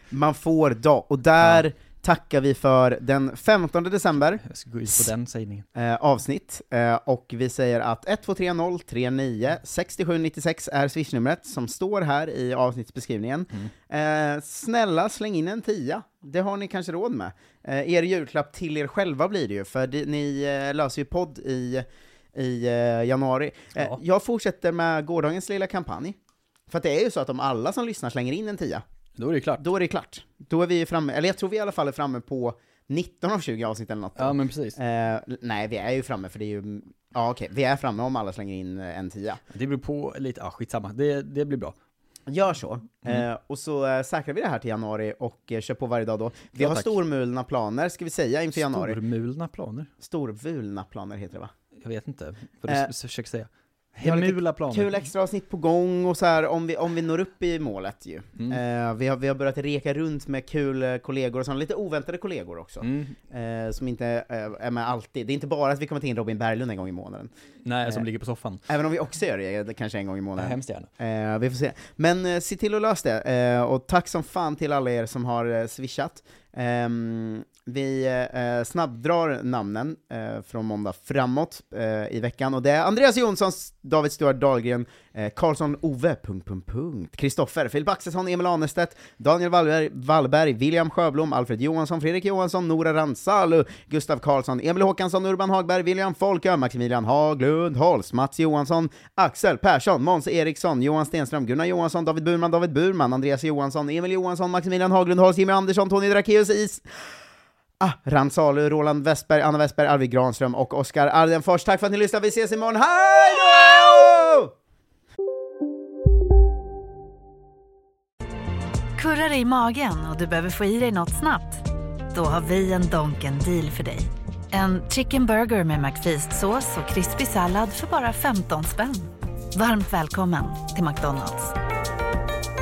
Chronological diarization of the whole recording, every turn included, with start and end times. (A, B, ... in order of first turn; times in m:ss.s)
0:00.1-0:04.4 A
0:04.4-0:05.7 B
0:05.8-0:26.2 A
0:26.7-0:28.8 A
0:29.2-0:29.6 B
0:29.6-0:39.4 A
0:34.2-0:34.8 B
0:39.5-0:41.8 B
0:42.3-0:49.0 A
0:46.6-0:46.9 B
0:48.5-0:49.9 B
0:50.0-0:51.5 A
0:51.8-0:54.9 B
0:54.0-1:07.3 A
1:02.8-1:03.2 B
1:07.6-1:08.6 B
1:08.7-1:47.0 A
1:10.4-1:10.9 B
1:47.8-1:54.5 A
1:59.0-2:11.6 C